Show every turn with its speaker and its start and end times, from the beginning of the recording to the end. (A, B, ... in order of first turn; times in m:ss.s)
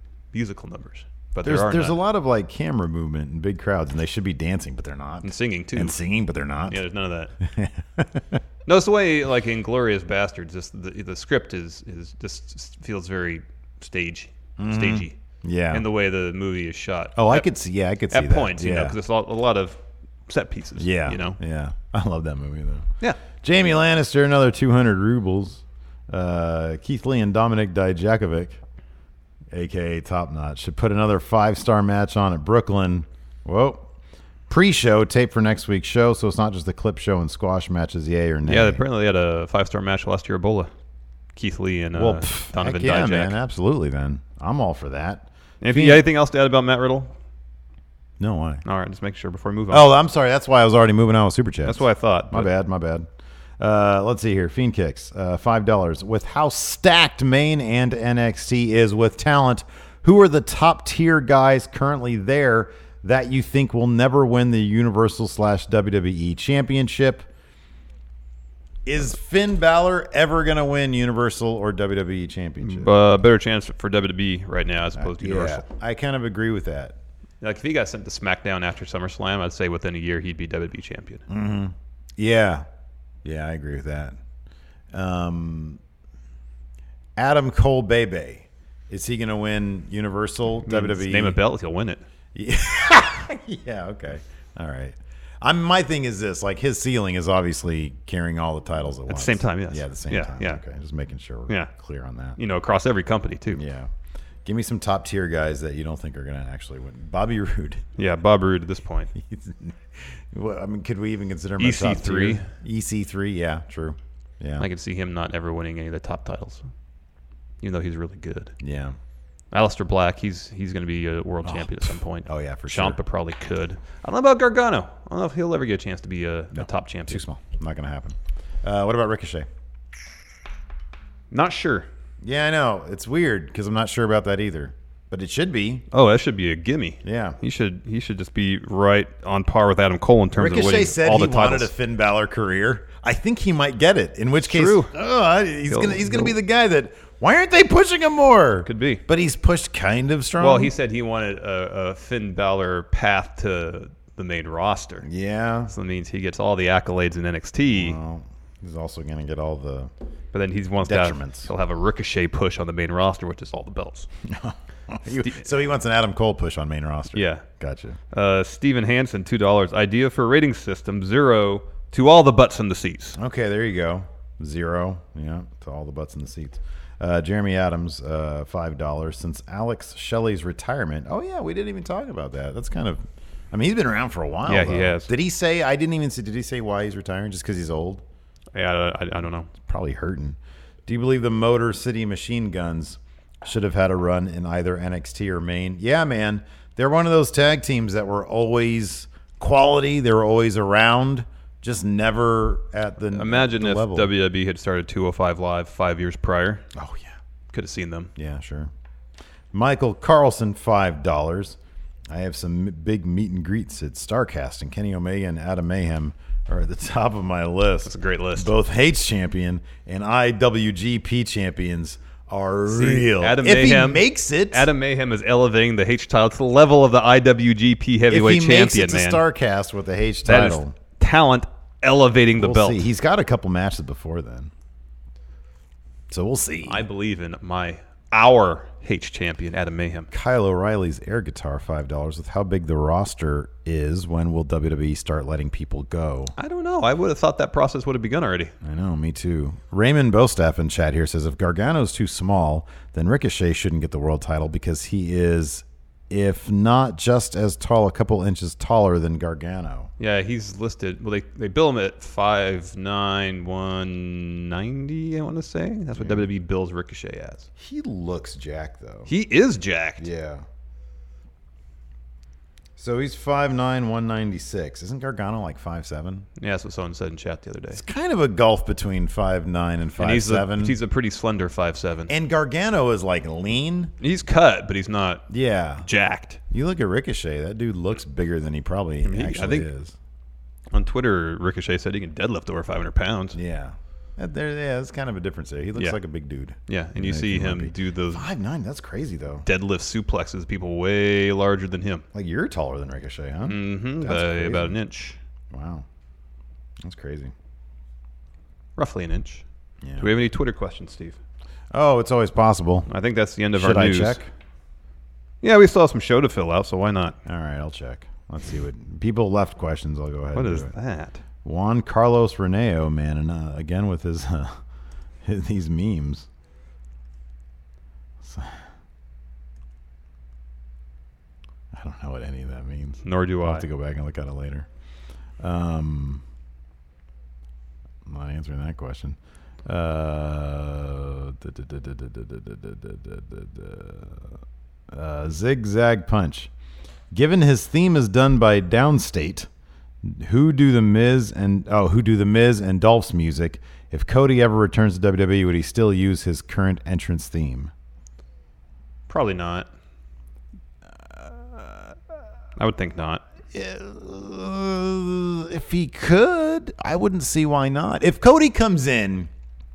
0:00.3-0:02.0 A
0:01.4-0:06.8 B
0:05.2-0:06.0 A
0:06.7-0:07.3 A
0:07.4-0:08.4 B
0:08.7-0:15.2 A
0:14.6-0:15.8 B
0:15.7-0:17.5 A
0:17.2-0:19.0 B
0:18.1-0:21.4 A
0:20.8-0:22.9 B
0:23.4-0:28.6 B
0:29.5-0:33.9 B
0:34.5-0:38.8 B
0:38.4-0:40.7 A
0:41.4-0:43.3 A
0:41.9-0:46.0 B
0:45.6-0:47.1 A
0:48.2-0:48.6 B
0:48.6-0:49.9 A
0:49.7-0:53.1 B
0:51.6-0:52.5 A
0:53.6-1:07.3 B
1:08.8-1:12.9 B
1:12.6-1:15.6 A
1:15.0-1:17.0 B
1:17.4-1:21.2 A
1:21.3-1:22.6 B
1:23.2-1:24.2 B
1:24.9-1:25.8 B
1:27.2-1:31.4 B
1:30.6-1:32.0 A
1:32.3-1:42.4 B
1:39.1-1:40.6 A
1:42.4-1:43.6 A
1:43.5-1:43.9 B
1:44.4-1:47.8 B
1:48.0-1:49.1 A
1:49.1-1:54.7 B
1:51.6-1:52.5 A
1:54.6-1:56.6 A
1:57.6-1:58.5 A
1:58.6-1:59.0 B
1:59.5-2:07.2 A
2:01.4-2:03.0 B
2:06.5-2:09.5 B
2:11.3-2:11.9 A
2:12.2-2:15.8 B
2:15.9-2:21.7 A
2:17.0-2:17.4 B
2:20.3-2:30.7 B
2:24.4-2:24.9 A
2:25.7-2:26.4 A
2:28.6-2:29.0 A
2:30.4-2:35.1 A
2:35.0-2:35.7 B
2:35.7-2:38.0 A
2:37.7-2:39.9 B
2:40.3-2:44.1 A
2:40.8-2:41.5 B
2:44.3-2:48.0 B
2:45.1-2:45.4 A
2:47.1-2:47.4 A
2:48.1-2:53.2 A
2:53.2-3:08.0 B
3:04.4-3:05.1 A
3:08.5-3:09.5 A
3:09.6-3:24.1 B
3:23.1-3:26.6 A
3:26.7-3:27.2 B
3:27.5-3:28.1 A
3:28.2-3:28.7 B
3:29.5-3:31.6 B
3:32.1-3:44.7 B
3:37.8-3:38.5 A
3:42.7-3:49.2 A
3:48.1-3:50.7 B
3:50.2-3:52.8 A
3:52.4-3:54.5 B
3:56.1-3:56.8 B
3:56.6-4:00.1 A
4:00.1-4:06.3 B
4:06.4-4:08.5 A
4:08.6-4:19.9 B
4:20.0-4:27.5 A
4:26.0-4:26.3 B
4:27.6-4:29.1 B
4:29.1-4:30.1 A
4:30.0-4:30.4 B
4:32.8-4:36.2 B
4:36.4-4:37.8 A
4:37.7-4:40.8 B
4:40.0-4:42.1 A
4:42.1-4:43.9 B
4:44.0-4:45.3 A
4:45.3-4:45.9 B
4:45.8-4:46.4 A
4:46.5-4:49.9 B
4:49.0-4:49.7 A
4:50.7-4:53.4 A
4:53.3-4:59.5 B
4:56.7-4:58.2 A
4:59.4-5:02.0 A
5:02.1-5:04.8 B
5:03.4-5:05.2 A
5:05.5-5:05.8 B
5:06.8-5:07.3 B
5:08.8-5:09.4 A
5:09.8-5:10.1 B
5:10.0-5:11.2 A
5:11.7-5:12.9 B
5:12.9-5:14.2 A
5:13.5-5:14.3 B
5:15.4-5:17.2 A
5:17.2-5:20.7 B
5:20.3-5:21.2 A
5:21.4-5:24.6 B
5:25.2-5:26.3 B
5:28.2-5:28.6 B
5:31.7-5:34.6 B
5:33.0-5:33.6 A
5:35.4-5:36.2 B
5:38.0-5:44.4 B
5:44.9-5:46.5 B
5:47.1-5:49.5 B
5:50.0-5:57.7 B
5:59.1-5:59.7 A
6:01.0-6:01.9 B
6:02.6-6:03.2 A
6:03.5-6:09.3 B